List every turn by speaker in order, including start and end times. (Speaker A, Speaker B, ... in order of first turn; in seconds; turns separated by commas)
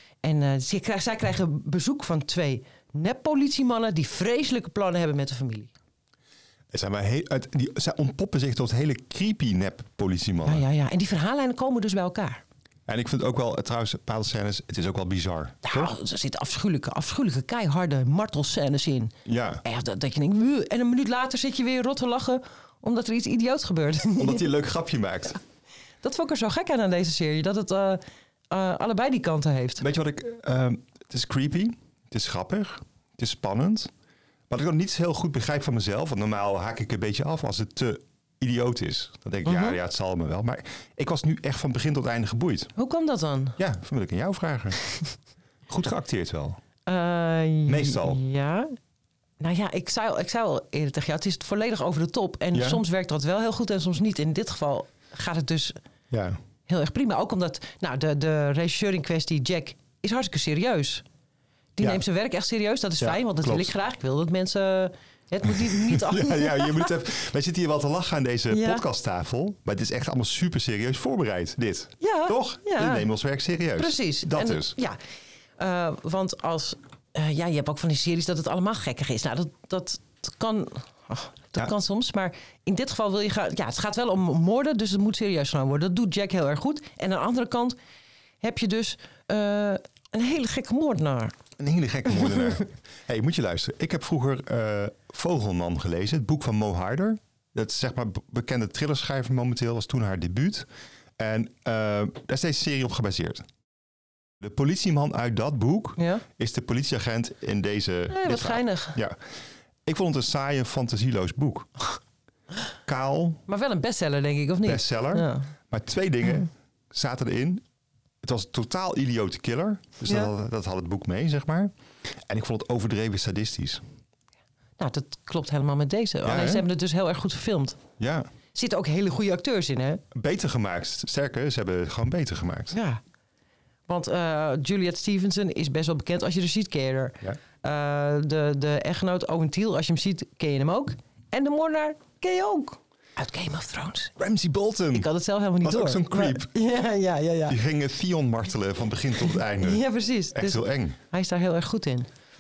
Speaker A: 0.2-5.7, Speaker B: 6.7-10.7, Speaker A: 10.4-12.4, Speaker B: 12.9-15.9, Speaker A: 15.7-24.5, Speaker B: 19.3-19.6, Speaker B: 24.2-25.4, Speaker A: 26.0-29.9, Speaker B: 29.8-33.9, Speaker B: 34.5-42.7, Speaker A: 39.5-39.8, Speaker A: 42.8-43.6, Speaker B: 43.6-44.8, Speaker B: 45.7-46.6, Speaker A: 46.9-48.7, Speaker B: 47.7-48.2, Speaker A: 49.4-55.8, Speaker B: 52.5-52.8, Speaker B: 56.1-56.4, Speaker A: 56.7-61.0, Speaker A: 61.8-66.9, Speaker B: 63.0-63.7, Speaker B: 65.5-74.8, Speaker A: 68.5-68.8, Speaker A: 72.0-73.1, Speaker A: 73.8-75.0, Speaker A: 75.6-87.8, Speaker A: 88.4-91.3, Speaker B: 91.6-103.4, Speaker B: 104.4-109.2, Speaker A: 106.0-106.2, Speaker A: 108.1-109.0, Speaker B: 109.9-111.7, Speaker B: 112.9-113.4, Speaker A: 113.5-115.5, Speaker B: 114.7-117.6, Speaker B: 118.2-123.8, Speaker A: 124.8-127.8, Speaker B: 126.2-126.7, Speaker B: 128.0-128.3, Speaker A: 128.5-130.0, Speaker B: 130.1-132.8, Speaker A: 132.7-133.0, Speaker A: 133.9-144.1, Speaker B: 144.2-145.1, Speaker A: 144.9-147.6, Speaker B: 145.6-146.5, Speaker B: 147.5-151.0, Speaker A: 149.6-152.1